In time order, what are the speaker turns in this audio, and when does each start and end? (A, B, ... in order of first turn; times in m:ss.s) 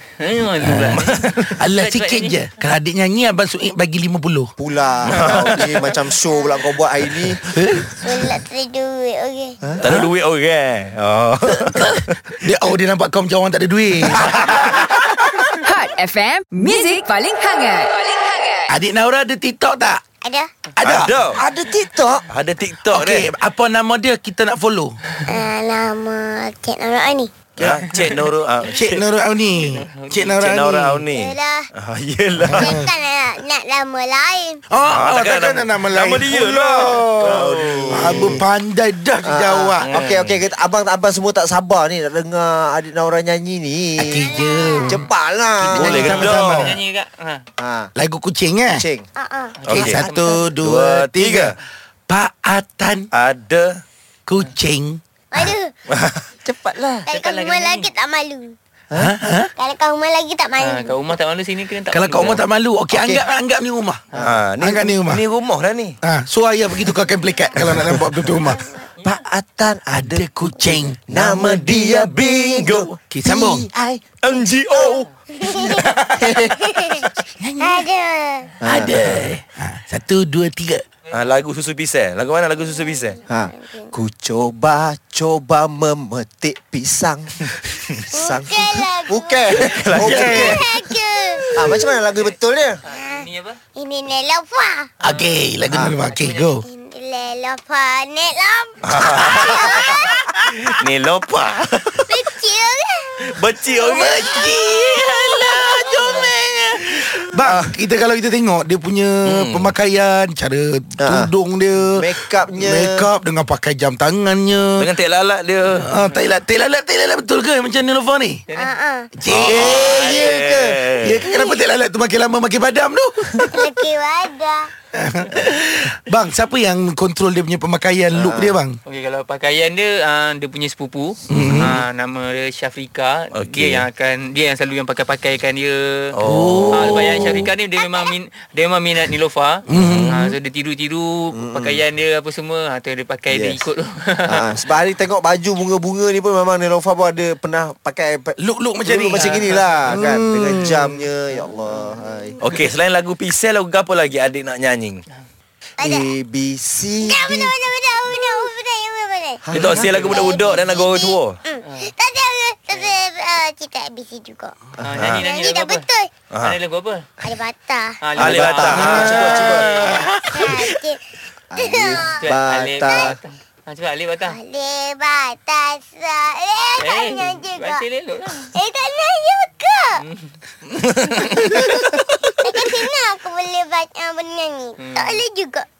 0:00.2-0:02.4 A
0:00.9-0:01.6 B
0:01.6-0:04.5 C
0:04.6-0:07.4 D
0:05.1-0:05.8 B
0:07.5-0:08.3 C
0:07.9-0:09.6 E
0:09.8-0:12.2 B
0:12.4-0:15.5 C
0:15.6-0:18.7 F
0:18.7-0:20.0 C
0:20.2-0:20.5 E
0:20.8-0:21.1 C
0:20.8-0:21.4 B
0:21.4-0:22.2 D
0:22.3-0:23.3 B
0:22.9-0:25.0 C
0:25.2-0:27.3 E
0:27.6-0:29.0 B
0:28.6-0:31.1 C
0:29.5-0:30.4 A
0:30.4-0:32.7 B
0:31.1-0:31.6 E
0:32.4-0:32.9 C
0:32.5-0:34.6 E
0:34.7-0:39.9 C
0:34.9-0:38.2 B
0:37.2-0:38.4 D
0:39.2-0:44.3 D
0:39.9-0:40.2 A
0:40.1-0:40.4 B
0:44.0-0:45.0 C
0:44.2-0:44.9 E
0:44.8-0:46.1 D
0:45.6-0:46.8 C
0:45.7-0:46.7 B
0:46.3-0:47.4 A
0:47.6-0:47.9 D
0:48.0-0:48.8 C
0:48.7-0:49.1 D
0:49.2-0:49.6 E
0:49.6-0:50.4 A
0:49.7-0:50.0 B
0:49.7-0:51.5 C
0:50.6-0:51.6 B
0:52.1-0:53.1 C
0:53.1-0:53.8 B
0:54.3-0:55.5 C
0:55.3-0:55.7 E
0:55.9-0:57.0 B
0:57.0-0:58.5 E
0:57.1-0:57.9 A
0:59.0-0:59.5 C
0:59.6-1:01.0 E
1:00.6-1:02.4 A
1:01.9-1:04.0 C
1:02.9-1:03.2 D
1:04.2-1:06.0 B
1:04.6-1:05.2 C
1:06.0-1:08.7 C
1:09.0-1:15.0 D
1:10.0-1:11.0 C
1:11.1-1:13.0 B
1:13.1-1:13.6 C
1:14.2-1:15.1 B
1:15.4-1:18.6 E
1:15.8-1:16.2 C
1:16.2-1:16.6 D
1:17.3-1:17.8 C
1:18.6-1:19.1 D
1:18.6-1:20.8 C
1:21.1-1:23.2 B
1:23.3-1:27.5 D
1:23.5-1:23.9 E
1:28.1-1:32.0 E
1:28.1-1:30.6 D
1:29.6-1:30.5 B
1:30.0-1:31.8 C
1:31.5-1:32.8 D
1:32.9-1:33.6 A
1:32.9-1:33.2 E
1:33.7-1:34.9 E
1:35.0-1:36.6 C
1:35.0-1:35.3 A
1:35.7-1:35.9 D
1:36.0-1:36.6 A
1:36.6-1:40.4 E
1:38.8-1:42.2 B
1:42.0-1:46.3 E
1:43.3-1:44.2 B
1:43.8-1:54.9 C
1:47.4-1:47.7 D
1:49.2-1:49.7 B
1:51.0-1:51.3 D
1:51.9-1:53.1 D
1:54.8-1:55.8 B
1:55.8-1:58.4 C
1:58.6-1:59.1 E
1:59.2-2:00.1 C
1:59.3-2:01.3 B
1:59.4-2:00.9 D
1:59.8-2:00.3 A
2:01.0-2:03.7 C
2:03.5-2:04.7 E
2:04.9-2:08.8 C
2:08.1-2:08.6 D
2:08.8-2:16.1 A
2:11.3-2:11.8 C
2:11.4-2:11.6 B
2:13.3-2:13.8 B
2:16.1-2:17.5 B
2:16.2-2:17.5 C
2:16.7-2:24.4 A
2:17.8-2:18.1 E
2:19.7-2:20.3 C
2:19.7-2:20.2 B
2:21.3-2:21.8 D
2:23.3-2:23.6 D
2:24.3-2:32.4 D
2:28.4-2:31.0 C
2:29.2-2:29.4 A
2:32.4-2:35.0 B
2:35.8-2:37.5 D
2:35.8-2:36.1 E
2:37.0-2:44.6 E
2:39.4-2:40.2 D
2:39.5-2:41.4 B
2:39.7-2:40.3 A
2:44.8-2:45.8 A
2:45.0-2:45.2 B
2:45.1-2:46.1 E
2:46.4-2:47.1 A
2:47.2-2:48.0 E
2:48.0-2:50.1 A
2:48.2-2:49.7 D
2:48.2-2:50.7 B
2:49.0-2:49.2 E
2:50.3-2:51.0 E
2:51.5-2:53.2 D
2:51.6-2:52.1 E
2:52.2-2:54.4 A
2:52.9-2:53.2 E
2:54.3-2:57.8 E
2:56.8-2:58.4 A
2:58.4-3:00.0 E
3:00.0-3:00.3 A
3:00.8-3:01.6 B
3:01.4-3:05.6 E
3:01.4-3:02.1 C
3:04.8-3:05.2 A